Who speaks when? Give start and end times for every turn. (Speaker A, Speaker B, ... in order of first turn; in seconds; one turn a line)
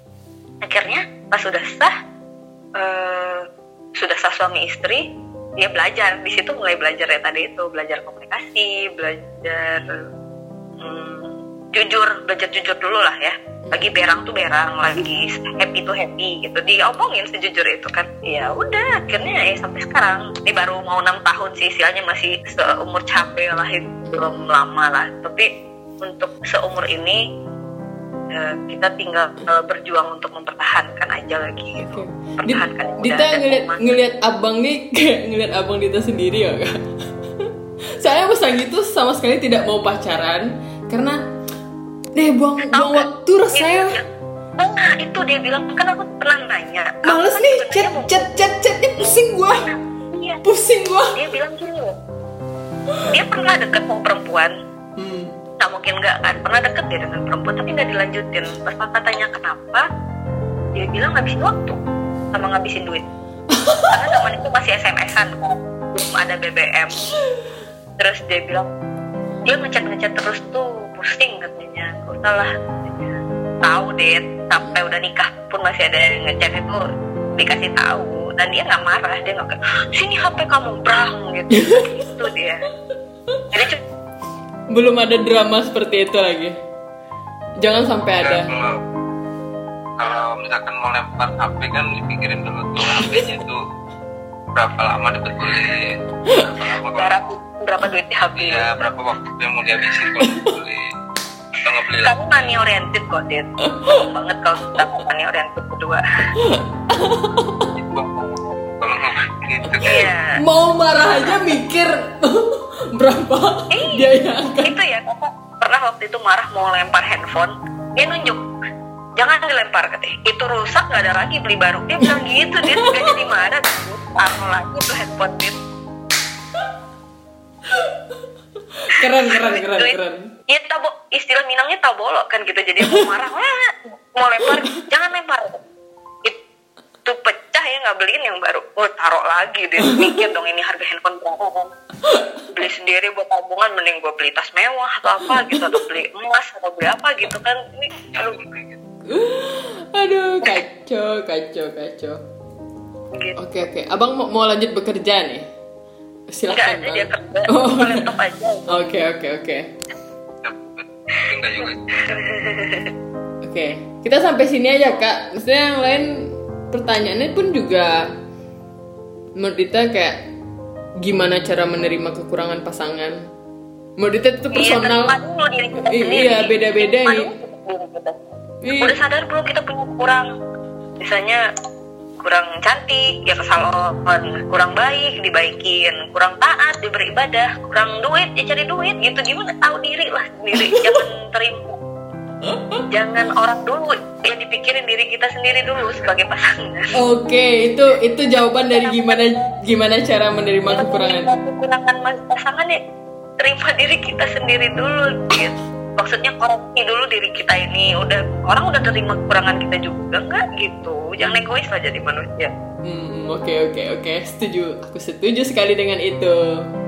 Speaker A: 0.6-1.9
Speaker A: 2.8-5.0
Speaker A: 5.6-10.1
Speaker A: 10.8-25.5
Speaker B: 13.6-13.9
Speaker B: 24.0-24.5
Speaker A: 26.0-27.2
Speaker A: 28.3-33.8
Speaker B: 31.8-36.8
Speaker B: 37.4-41.2
Speaker B: 42.1-44.0
Speaker A: 42.7-48.4
Speaker B: 47.0-49.7
Speaker A: 49.5-50.4
Speaker B: 50.4-51.2
Speaker A: 51.1-52.0
Speaker A: 53.1-54.5
Speaker B: 55.0-55.4
Speaker A: 55.6-59.8
Speaker A: 60.7-61.8
Speaker A: 62.3-63.0
Speaker B: 63.5-64.0
Speaker A: 63.9-67.0
Speaker A: 68.0-68.7
Speaker A: 69.4-76.8
Speaker A: 77.4-82.6
Speaker B: 81.5-82.0
Speaker A: 83.5-83.8
Speaker B: 84.7-86.5
Speaker B: 87.6-88.5
Speaker C: 88.2-88.7
Speaker C: 90.0-93.6
Speaker C: 94.5-97.2
Speaker A: 97.0-98.8
Speaker C: 98.3-100.8
Speaker B: 100.2-100.5
Speaker C: 101.6-102.4
Speaker A: 102.0-106.0
Speaker B: 106.4-107.7
Speaker C: 107.8-110.1
Speaker A: 109.8-110.4
Speaker B: 110.3-114.7
Speaker A: 111.1-111.4
Speaker A: 113.7-118.4
Speaker A: 119.2-125.5
Speaker B: 122.7-123.2
Speaker B: 128.8-130.3
Speaker A: 129.0-129.9
Speaker A: 130.5-135.6
Speaker A: 137.0-141.7
Speaker B: 139.8-140.2
Speaker B: 142.0-142.5
Speaker A: 142.5-148.4
Speaker B: 145.3-145.8
Speaker C: 148.1-148.8
Speaker B: 149.1-152.2
Speaker B: 153.3-155.5
Speaker B: 156.3-158.1
Speaker A: 156.5-158.7
Speaker B: 158.7-159.7
Speaker C: 160.4-162.2
Speaker A: 161.6-162.9
Speaker B: 163.4-168.1
Speaker B: 169.4-170.2
Speaker B: 171.0-173.2
Speaker B: 174.0-175.1
Speaker A: 174.5-180.3
Speaker B: 175.8-177.3
Speaker B: 178.6-179.0
Speaker A: 181.0-181.4
Speaker A: 182.2-191.8
Speaker B: 190.5-191.0
Speaker B: 192.5-192.8
Speaker A: 192.9-196.9
Speaker B: 196.9-201.3
Speaker A: 198.7-199.5
Speaker A: 200.7-202.8
Speaker A: 203.4-212.5
Speaker B: 212.8-216.4